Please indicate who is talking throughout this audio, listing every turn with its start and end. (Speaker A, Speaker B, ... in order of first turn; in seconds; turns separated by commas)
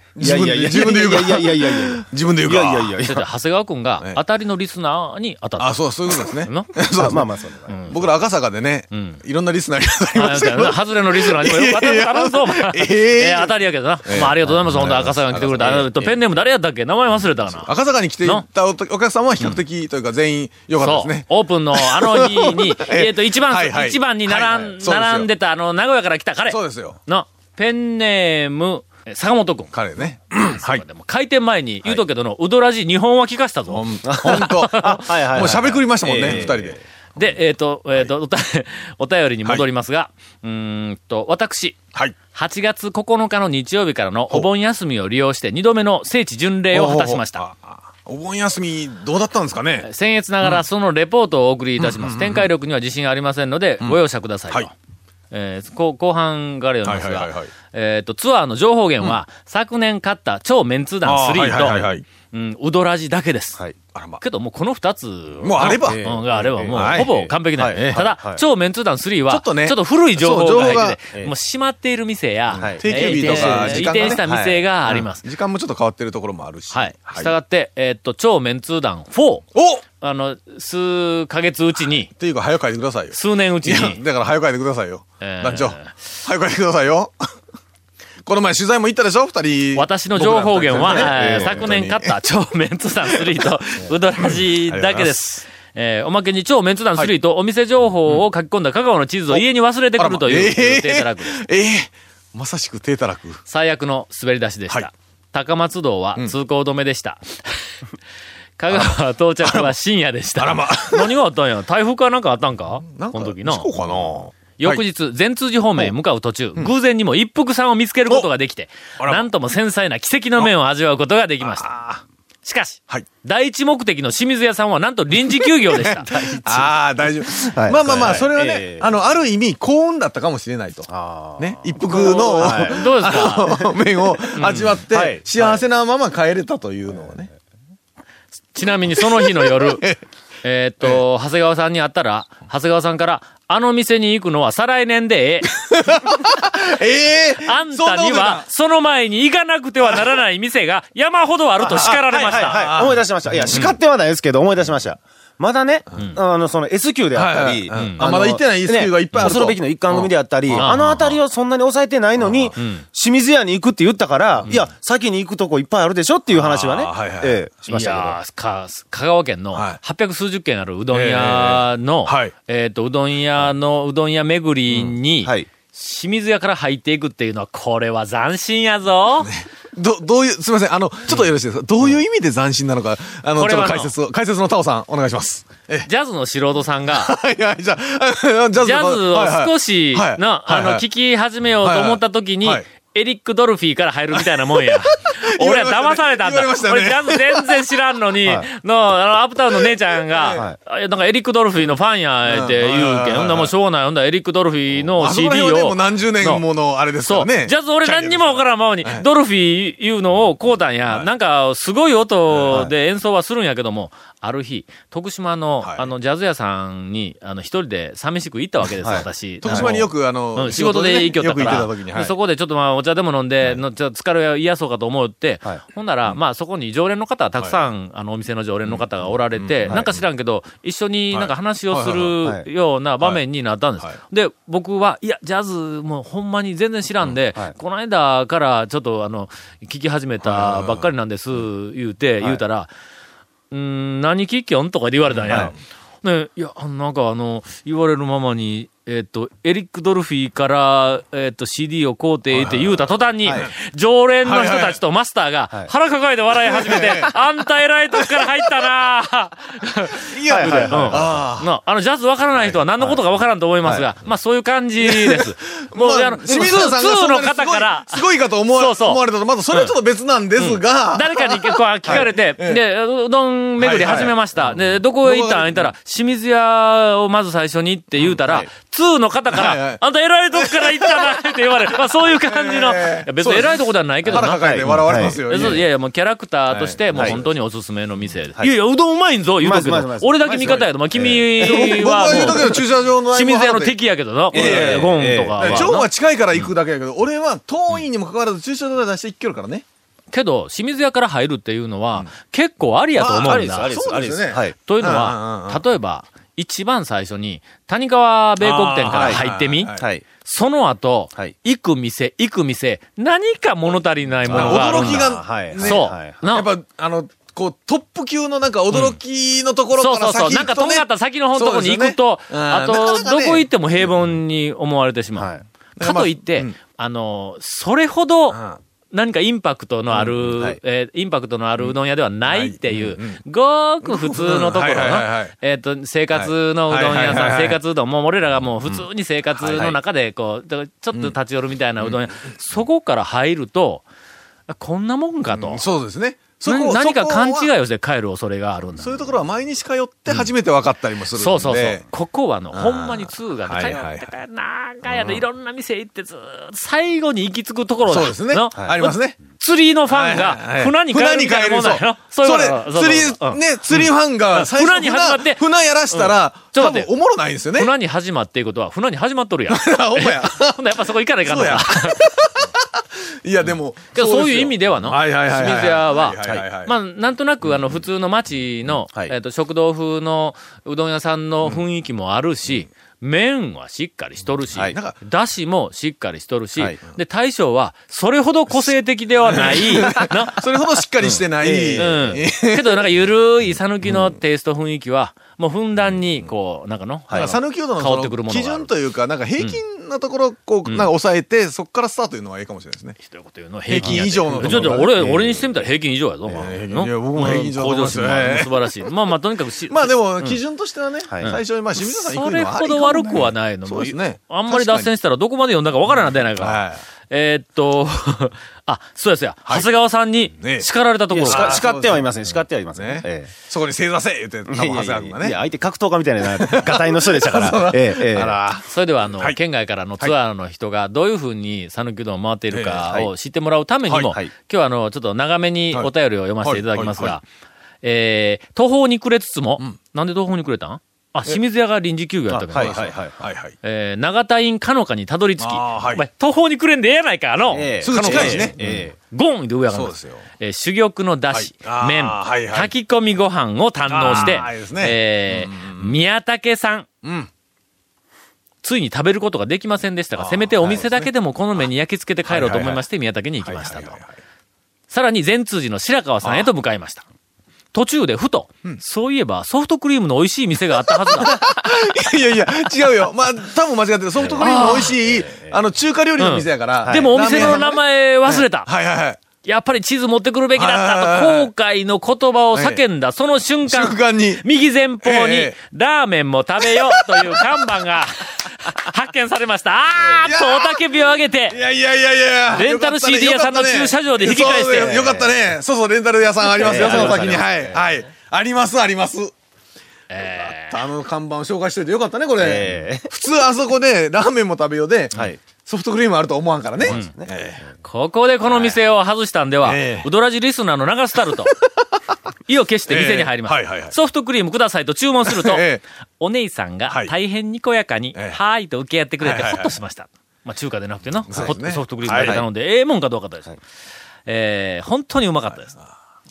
Speaker A: 0.2-3.0, Speaker B: 0.2-3.2, Speaker C: 3.0-6.8, Speaker A: 5.6-7.3, Speaker B: 7.0-7.8, Speaker C: 7.7-8.0, Speaker A: 7.9-16.1, Speaker C: 8.9-9.2, Speaker C: 10.2-18.4, Speaker B: 15.6-15.9, Speaker A: 17.5-25.3, Speaker C: 20.8-29.7, Speaker A: 26.5-27.0, Speaker A: 29.7-30.8, Speaker C: 30.4-35.5, Speaker A: 33.7-36.8, Speaker B: 34.0-36.8, Speaker C: 37.1-41.8, Speaker C: 42.3-47.4, Speaker A: 46.7-49.9, Speaker C: 49.8-54.7, Speaker A: 51.8-52.5, Speaker C: 55.3-63.6, Speaker A: 56.9-57.5, Speaker A: 61.0-62.0, Speaker A: 63.9-64.2, Speaker C: 64.2-75.2, Speaker A: 65.4-66.1, Speaker B: 65.6-68.4, Speaker A: 66.7-67.1, Speaker A: 67.7-68.0, Speaker A: 69.3-71.0, Speaker A: 72.5-74.2, Speaker B: 72.6-74.6, Speaker A: 74.9-77.3, Speaker C: 76.7-79.5, Speaker A: 79.5-79.8, Speaker C: 80.0-82.1, Speaker A: 82.1-87.2, Speaker C: 83.1-84.0, Speaker C: 85.2-86.0, Speaker A: 88.2-92.1, Speaker C: 89.8-101.4, Speaker B: 90.8-91.7, Speaker A: 94.2-95.2, Speaker A: 100.0-103.4, Speaker C: 103.5-107.7, Speaker C: 108.6-113.7, Speaker A: 108.7-109.7, Speaker A: 110.4-111.2, Speaker A: 112.9-114.8, Speaker C: 114.6-121.7, Speaker A: 119.0-119.3, Speaker A: 121.4-122.0, Speaker C: 122.4-126.1, Speaker A: 125.4-137.3, Speaker B: 126.1-126.7, Speaker B: 127.4-128.9, Speaker B: 130.9-133.7, Speaker C: 131.9-133.6, Speaker C: 134.3-134.8, Speaker B: 134.9-135.6, Speaker C: 138.5-139.9, Speaker A: 138.9-140.0, Speaker C: 140.4-145.5, Speaker A: 145.5-148.5, Speaker C: 147.4-152.9, Speaker A: 149.8-150.1, Speaker A: 151.6-153.8, Speaker B: 151.8-168.2, Speaker A: 157.1-160.7, Speaker C: 157.7-158.0, Speaker C: 160.5-161.2, Speaker A: 162.2-162.6, Speaker C: 162.6-162.8, Speaker A: 166.3-167.4, Speaker C: 167.7-179.3, Speaker A: 169.5-169.8, Speaker A: 170.9-172.3, Speaker A: 174.7-175.0, Speaker A: 179.2-185.9, Speaker C: 183.4-183.9, Speaker C: 185.8-187.1, Speaker A: 186.9-190.8, Speaker C: 188.6-206.4, Speaker A: 191.6-192.6, Speaker A: 194.1-197.6, Speaker A: 199.5-200.5, Speaker A: 202.3-203.5, Speaker A: 204.8-209.1, Speaker C: 207.0-242.7, Speaker A: 212.3-212.6, Speaker A: 215.6-215.9, Speaker B: 218.8-219.7, Speaker A: 219.4-222.1, Speaker A: 228.7-230.0, Speaker A: 231.1-232.2, Speaker A: 240.2-240.9, Speaker C: 243.5-269.7, Speaker A: 245.1-245.5, Speaker A: 252.3-253.5, Speaker A: 254.2-254.8, Speaker A: 256.4-257.1, Speaker A: 257.9-258.6, Speaker A: 259.9-261.5, Speaker B: 260.3-261.1, Speaker A: 264.8-272.6, Speaker C: 270.4-296.5, Speaker A: 273.6-275.7, Speaker B: 278.2-278.5, Speaker A: 279.3-279.8, Speaker A: 280.3-281.2, Speaker A: 282.0-285.6, Speaker B: 284.1-285.5, Speaker A: 286.5-287.3, Speaker B: 289.4-292.6, Speaker A: 290.2-290.7, Speaker A: 291.4-293.8, Speaker A: 294.3-299.6, Speaker B: 294.3-295.7, Speaker C: 300.1-303.8, Speaker B: 303.0-304.6, Speaker A: 303.0-305.6, Speaker C: 304.6-316.5, Speaker A: 308.4-309.9, Speaker B: 308.9-309.2, Speaker B: 309.8-310.0, Speaker B: 314.2-316.2, Speaker A: 314.3-323.5, Speaker C: 318.7-319.0, Speaker C: 319.8-343.9, Speaker B: 325.2-325.4, Speaker A: 325.8-326.6, Speaker A: 328.3-328.6, Speaker A: 329.9-330.3, Speaker A: 332.3-333.2, Speaker A: 333.8-335.3, Speaker A: 336.1-337.6, Speaker A: 339.4-339.7, Speaker A: 341.8-342.3, Speaker C: 344.5-345.6, Speaker A: 345.3-347.5, Speaker C: 346.5-349.0, Speaker A: 348.7-351.8, Speaker C: 351.1-365.4, Speaker A: 352.5-354.1, Speaker A: 354.9-355.2, Speaker A: 357.9-359.2, Speaker A: 359.9-367.7, Speaker C: 365.9-366.9, Speaker C: 367.5-372.1, Speaker A: 369.5-370.6, Speaker A: 371.3-376.8, Speaker C: 373.9-390.4, Speaker A: 384.6-385.0, Speaker A: 389.3-392.9, Speaker B: 391.1-392.0, Speaker C: 391.8-398.7, Speaker A: 393.9-394.1, Speaker A: 397.1-403.0, Speaker C: 403.0-410.4, Speaker A: 403.7-405.5, Speaker A: 406.3-408.8, Speaker A: 409.7-414.9, Speaker C: 411.2-421.6, Speaker A: 416.1-416.8, Speaker A: 420.3-420.7, Speaker B: 421.1-423.3, Speaker A: 421.2-422.1, Speaker A: 422.8-425.4, Speaker B: 424.5-428.4, Speaker A: 426.2-429.4, Speaker C: 428.6-437.2, Speaker A: 432.5-432.9, Speaker A: 433.9-434.1, Speaker A: 436.4-437.2, Speaker C: 437.8-442.9, Speaker B: 442.5-443.2, Speaker A: 442.5-443.6, Speaker C: 443.6-456.9, Speaker A: 445.4-446.0, Speaker B: 447.5-448.9, Speaker A: 447.8-448.8, Speaker A: 449.7-450.2, Speaker A: 451.3-452.7, Speaker A: 453.9-456.0, Speaker A: 457.0-457.3, Speaker C: 458.6-464.0, Speaker A: 460.2-461.6, Speaker A: 462.3-462.8, Speaker A: 463.4-464.2, Speaker C: 464.9-467.1, Speaker A: 466.2-466.5, Speaker C: 467.7-471.4, Speaker A: 470.9-479.2, Speaker C: 474.4-474.9, Speaker B: 475.0-475.6, Speaker C: 476.2-478.7, Speaker B: 476.8-477.7, Speaker C: 479.4-491.6, Speaker A: 480.6-481.5, Speaker A: 482.5-482.8, Speaker A: 483.7-484.4, Speaker A: 485.0-485.6, Speaker A: 486.6-487.6, Speaker A: 490.2-490.9, Speaker A: 491.5-499.3, Speaker C: 492.5-495.2, Speaker B: 496.6-497.8, Speaker C: 496.6-497.4, Speaker C: 500.1-500.9, Speaker A: 500.2-507.6, Speaker B: 502.4-503.1, Speaker B: 506.8-507.3, Speaker C: 507.8-511.5, Speaker A: 508.5-508.8, Speaker A: 509.6-510.1, Speaker A: 511.5-511.8, Speaker C: 512.5-515.6, Speaker A: 512.9-513.9, Speaker A: 515.3-515.8, Speaker C: 516.2-523.6, Speaker A: 518.1-518.4, Speaker A: 519.2-519.7, Speaker A: 521.3-522.4, Speaker B: 522.1-522.5, Speaker C: 524.3-525.8, Speaker A: 525.5-525.9